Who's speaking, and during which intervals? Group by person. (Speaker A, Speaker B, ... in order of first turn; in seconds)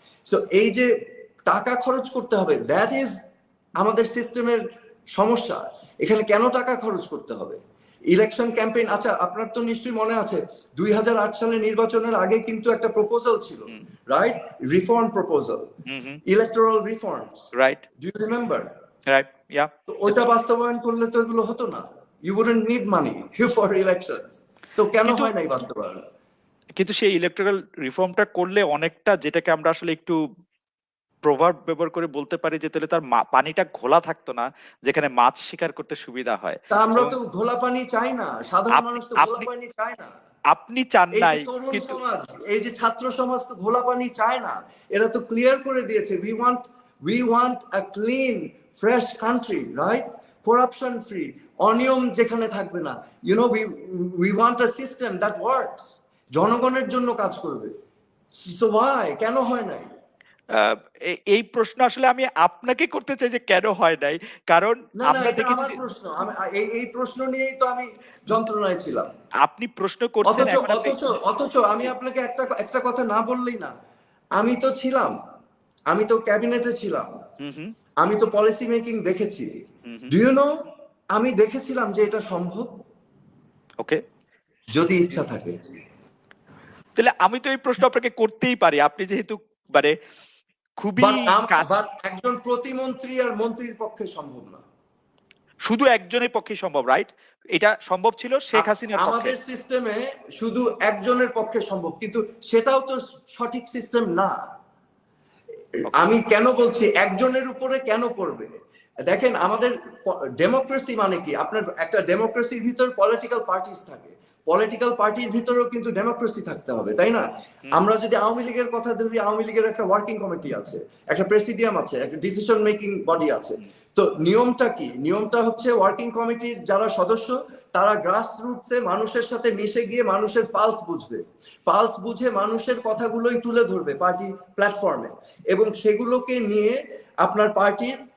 Speaker A: 0.3-0.9, 1.5-3.1, 3.8-4.6, 5.2-7.6, 8.1-15.6, 16.3-17.5, 18.0-18.7, 19.9-26.0, 36.7-40.1, 41.1-57.7, 58.4-59.9, 65.0-69.1, 70.2-73.7, 74.4-75.1, 75.9-77.1, 78.0-79.5, 80.1-80.5, 81.1-82.7, 84.7-85.6, 91.0-94.6, 98.5-104.4, 105.9-108.5, 109.1-137.9
Speaker B: 15.9-16.2, 19.1-20.2, 26.8-30.2, 31.2-37.1, 38.7-39.5, 40.5-42.0, 60.5-65.8, 69.5-71.0, 77.4-77.7, 87.0-89.9, 90.8-91.7, 95.7-99.3